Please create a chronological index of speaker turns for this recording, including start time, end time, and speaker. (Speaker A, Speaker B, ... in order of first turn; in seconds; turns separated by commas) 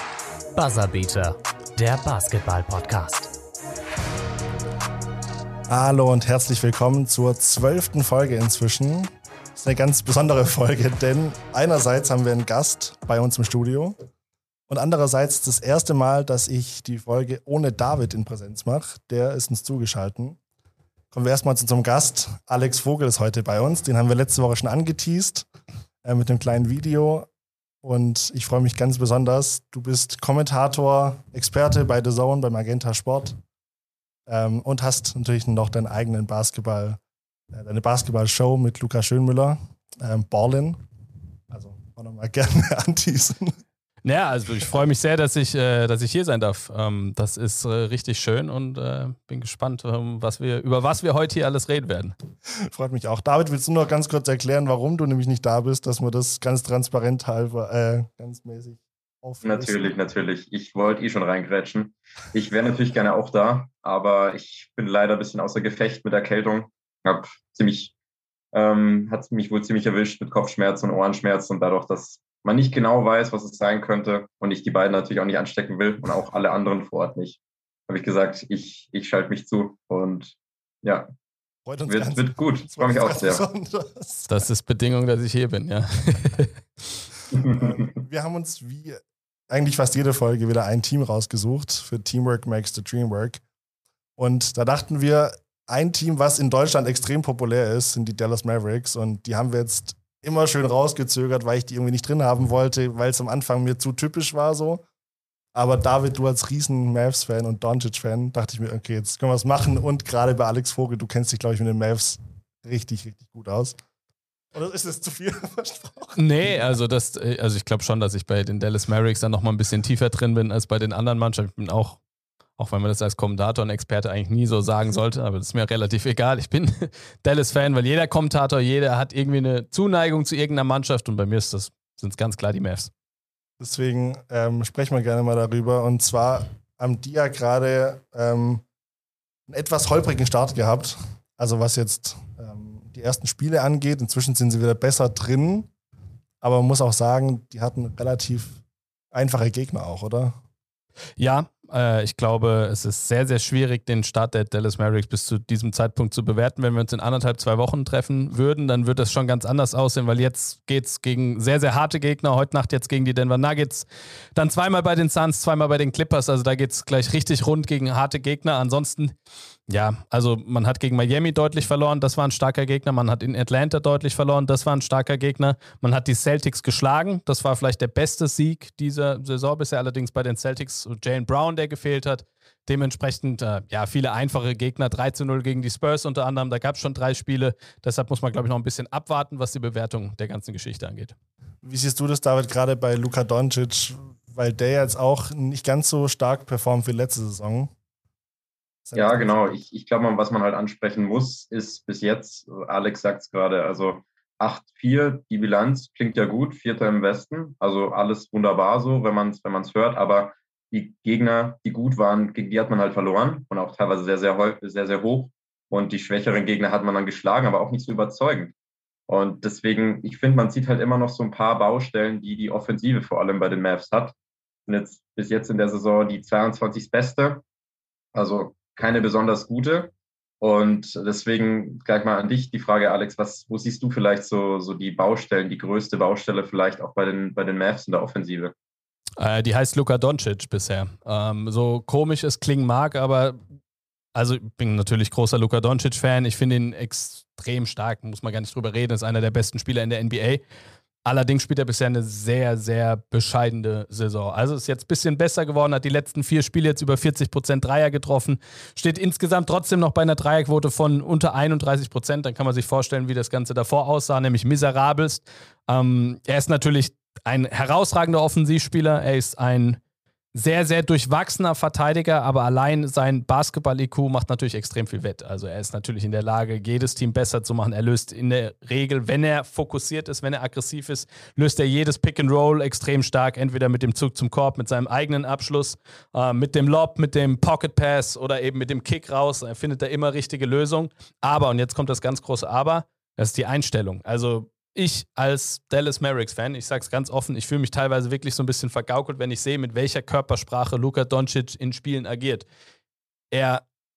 Speaker A: 0.6-3.3, Speaker B: 5.7-14.0, Speaker B: 14.7-20.4, Speaker B: 21.1-25.5, Speaker B: 26.0-27.3, Speaker B: 27.8-33.4, Speaker B: 34.3-37.0, Speaker B: 37.5-40.8, Speaker B: 41.5-43.5, Speaker C: 44.0-52.1, Speaker B: 52.7-59.9, Speaker D: 59.4-67.9, Speaker D: 68.5-81.1, Speaker B: 81.7-84.3, Speaker D: 81.9-83.4, Speaker C: 84.3-86.6, Speaker D: 87.3-87.9, Speaker B: 87.4-93.4, Speaker B: 94.2-104.8, Speaker B: 105.5-113.8, Speaker B: 114.5-116.6, Speaker C: 116.2-122.0, Speaker C: 122.6-132.9, Speaker B: 133.6-138.6, Speaker B: 139.5-145.7, Speaker B: 146.4-148.6, Speaker B: 149.1-150.4, Speaker C: 151.2-169.1, Speaker C: 169.7-191.2, Speaker B: 191.6-197.7, Speaker B: 198.9-199.6, Speaker D: 198.9-218.5, Speaker D: 219.1-224.2, Speaker D: 224.7-227.4, Speaker D: 228.1-238.5, Speaker C: 239.2-243.4, Speaker C: 244.2-250.4, Speaker C: 251.1-269.8, Speaker C: 270.4-302.5, Speaker C: 303.3-303.6